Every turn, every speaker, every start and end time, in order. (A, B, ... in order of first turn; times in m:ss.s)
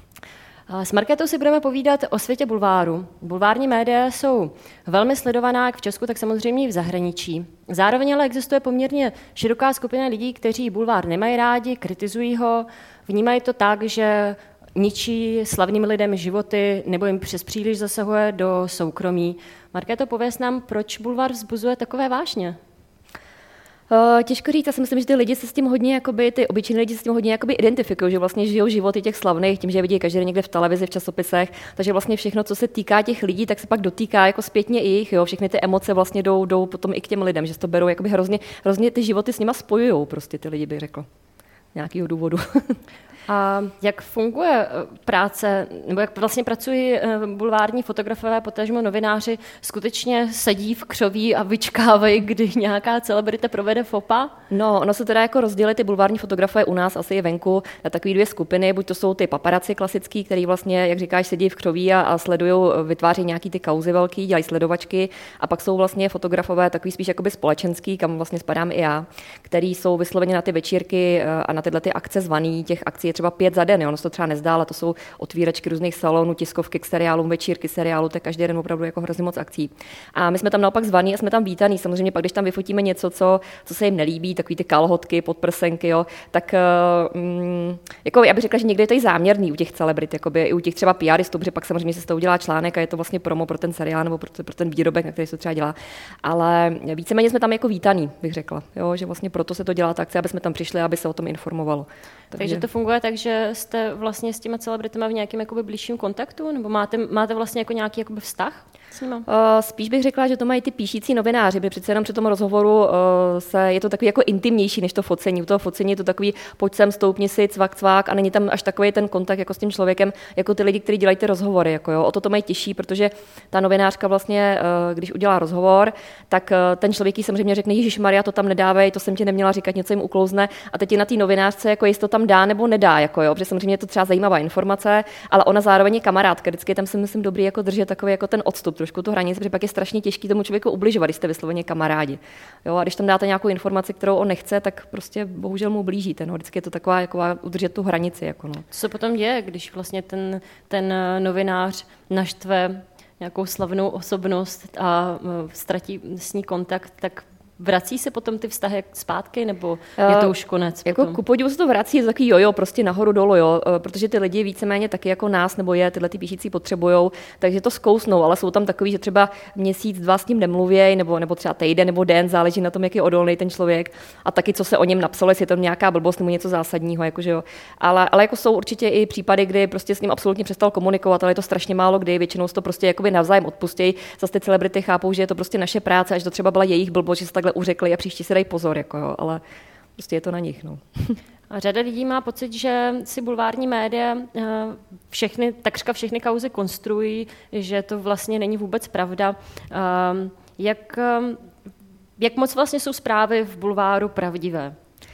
0:00.7-0:22.6 A
0:23.9-0:41.1 B
0:41.7-0:42.8 B
0:43.3-0:54.3 A
0:54.5-1:42.6 B
1:42.3-1:49.2 A
1:49.3-2:28.6 B
2:28.7-2:41.2 A
2:40.0-2:40.3 B
2:40.8-3:09.4 B
3:10.0-3:11.2 B
3:11.5-3:21.5 A
3:22.2-3:24.8 A